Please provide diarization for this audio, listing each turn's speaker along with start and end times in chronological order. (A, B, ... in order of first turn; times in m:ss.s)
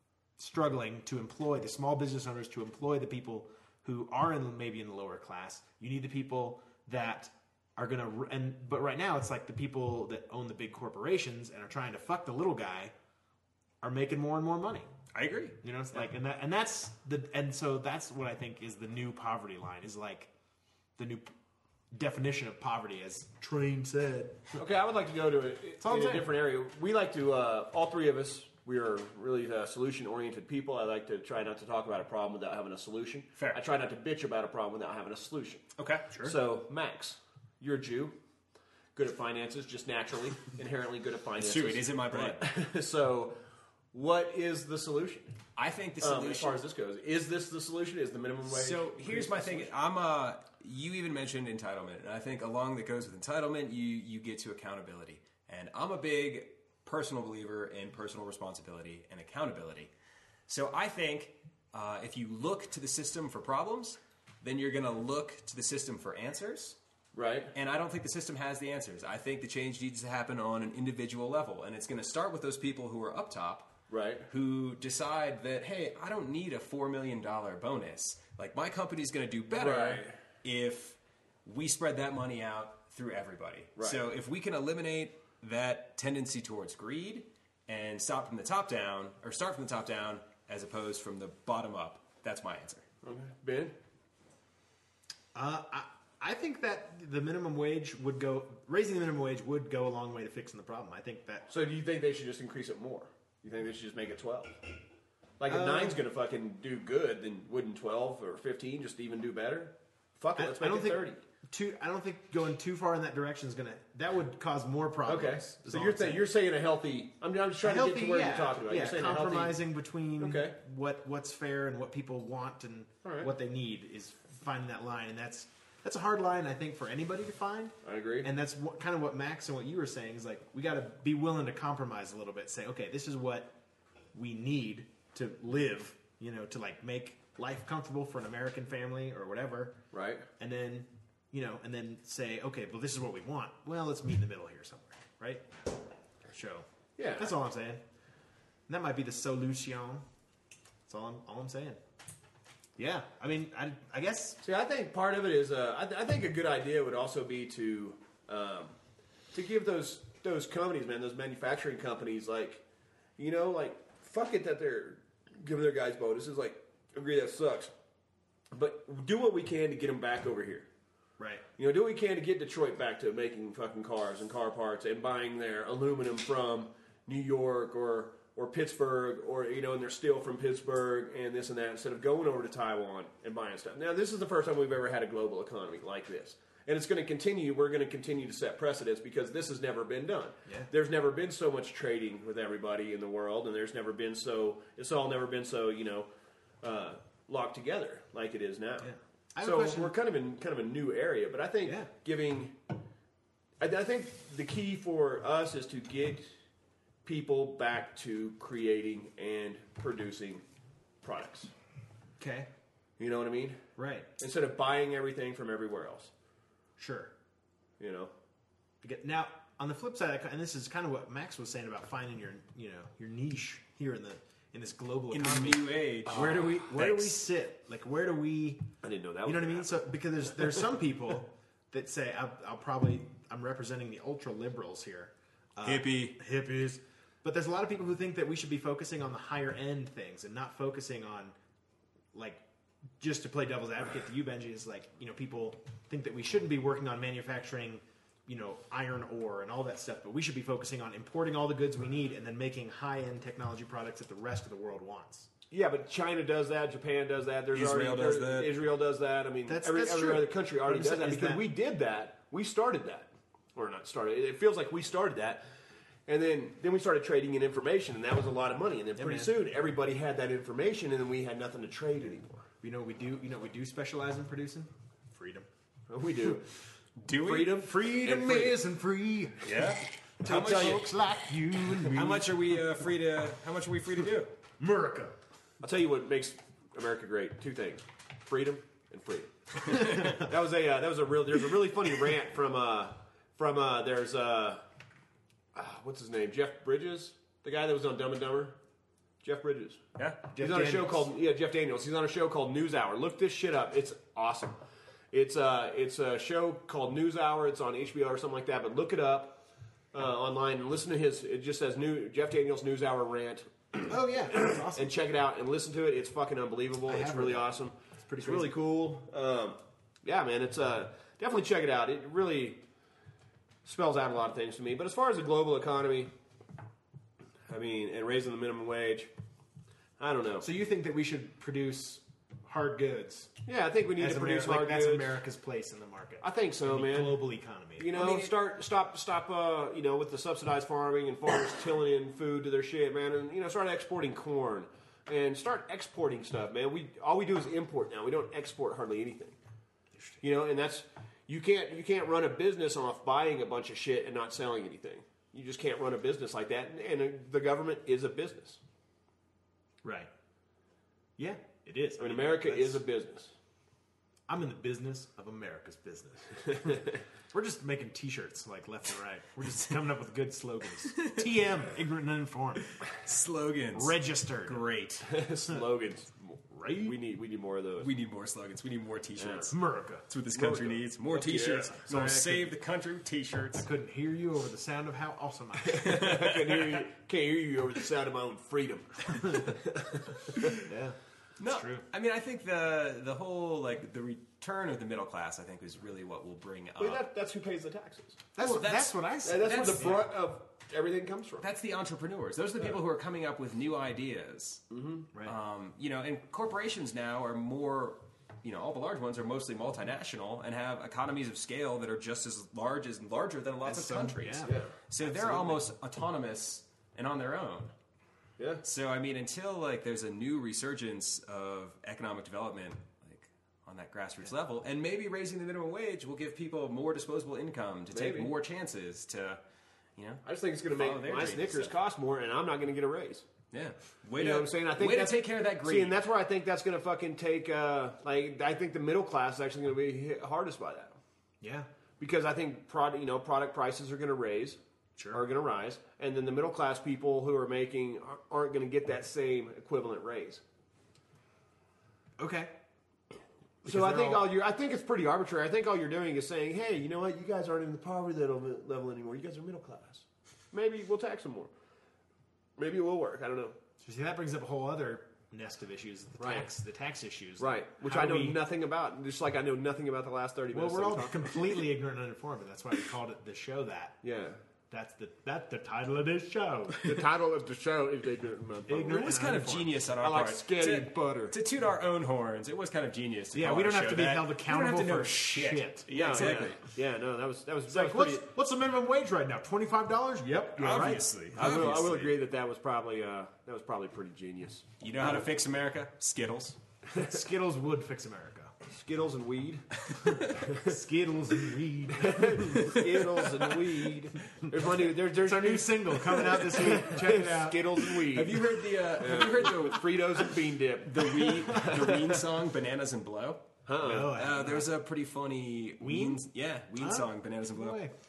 0:00.4-0:12.9 A
0:13.8-0:14.9 A
0:15.1-0:15.6 B
0:15.6-0:20.3 A
0:21.0-0:21.3 A
0:21.9-0:24.6 A
0:24.5-0:35.7 C
0:25.8-0:26.3 A
0:35.8-0:36.2 B
0:36.2-0:38.1 C
0:38.9-0:43.4 C
0:41.4-0:42.5 B
0:43.9-0:45.4 C
0:45.6-0:46.6 B
0:46.0-0:49.7 C
0:48.4-0:59.9 B
1:00.5-1:06.8 B
1:07.1-1:07.5 C
1:07.5-1:13.7 B
1:13.9-1:14.3 C
1:14.3-1:32.8 B
1:19.5-1:20.2 C
1:33.0-1:33.7 C
1:35.3-1:41.5 A
1:41.5-1:44.6 C
1:45.4-1:51.2 C
1:45.5-1:46.0 A
1:50.4-1:56.3 A
1:55.0-1:59.6 C
1:57.6-2:13.5 A
2:00.2-2:00.6 C
2:03.0-2:03.3 C
2:07.8-2:08.3 C
2:14.1-2:19.8 A
2:19.9-2:20.3 C
2:20.4-2:25.7 A
2:26.3-2:26.6 A
2:27.0-2:27.3 C
2:27.2-2:27.8 A
2:28.7-2:30.0 A
2:30.9-2:31.8 A
2:32.8-2:34.4 A
2:34.4-2:38.8 C
2:39.3-2:42.6 C
2:43.2-2:47.7 C
2:48.5-2:50.7 C
2:51.2-2:51.4 A
2:51.6-3:16.1 C
3:10.4-3:10.7 A
3:16.6-3:22.6 C
3:18.8-3:19.9 A
3:23.6-3:26.3 C
3:27.0-3:30.4 C
3:31.0-3:31.5 C
3:32.2-3:32.5 A
3:33.0-3:33.6 C
3:33.8-3:34.1 A
3:34.2-3:36.1 C
3:36.8-3:37.1 A
3:37.8-3:38.1 C
3:38.8-3:48.6 A
3:45.1-3:47.2 B
3:48.8-3:49.8 C
3:49.2-4:01.4 A
3:55.6-3:56.2 B
4:02.1-4:02.4 A
4:03.0-4:15.3 A
4:15.5-4:25.4 C
4:17.5-4:18.5 B
4:19.4-4:21.5 A
4:26.1-4:32.5 C
4:29.0-4:29.3 A
4:32.6-4:35.5 A
4:35.9-4:36.5 C
4:37.0-4:37.7 B
4:37.1-4:38.6 C
4:37.5-4:42.6 A
4:39.4-4:44.3 B
4:44.6-4:45.1 A
4:45.6-4:54.6 C
4:55.5-4:58.6 C
4:59.2-4:59.8 C
5:00.3-5:01.0 A
5:00.4-5:04.6 C
5:05.1-5:09.4 C
5:09.9-5:22.6 C
5:13.9-5:14.9 A
5:16.9-5:18.5 A
5:23.6-5:26.1 C
5:27.4-5:29.1 C
5:30.0-5:30.4 C
5:30.4-5:33.3 A
5:33.4-5:35.2 C
5:34.0-5:38.1 A
5:36.2-5:37.2 C
5:37.8-5:49.4 C
5:37.9-5:38.3 B
5:50.2-5:58.6 C
5:59.8-6:00.1 A
6:01.2-6:02.8 A
6:02.0-6:03.3 C
6:04.3-6:12.7 A
6:06.5-6:07.0 C
6:10.9-6:11.2 B
6:12.9-6:15.1 B
6:13.7-6:14.6 A
6:15.0-6:17.9 C
6:16.6-6:16.9 A
6:17.8-6:23.7 B
6:19.2-6:19.5 C
6:19.5-6:20.0 A
6:20.3-6:21.9 C
6:21.8-6:22.5 A
6:23.6-6:26.2 A
6:25.6-6:30.4 C
6:26.0-6:26.8 B
6:30.6-6:31.8 A
6:31.4-6:37.0 B
6:36.8-6:38.2 C
6:38.3-6:40.1 A
6:38.4-6:40.1 B
6:39.2-6:41.4 C
6:41.4-6:44.6 B
6:44.7-6:45.0 C
6:45.2-6:57.7 B
6:53.6-6:55.6 A
6:54.4-6:54.7 C
6:58.6-7:09.4 B
7:07.9-7:08.3 C
7:10.0-7:11.7 B
7:10.2-7:13.3 C
7:13.5-7:16.0 B
7:14.2-7:21.0 C
7:21.4-7:21.7 A
7:22.0-7:24.6 C
7:25.1-7:30.4 C
7:32.2-7:32.5 A
7:33.6-7:41.5 C
7:33.6-7:34.3 A
7:42.6-7:43.5 C
7:43.8-7:48.4 A
7:46.2-7:46.5 C
7:47.4-7:51.6 C
7:50.5-7:54.0 A
7:54.0-7:54.4 C
7:54.7-7:56.8 A
7:56.8-7:59.1 C
7:58.7-7:59.8 A
7:58.9-8:06.6 B
8:00.0-8:01.3 C
8:03.3-8:06.5 A
8:05.9-8:08.2 C
8:07.7-8:11.1 A
8:10.6-8:12.2 B
8:11.3-8:14.6 C
8:14.8-8:16.6 B
8:17.0-8:18.5 A
8:18.6-8:19.7 C
8:20.3-8:23.2 A
8:21.9-8:32.2 C
8:24.8-8:27.8 A
8:27.9-8:37.9 B
8:33.6-8:34.2 C
8:33.8-8:34.7 A
8:35.8-8:37.9 A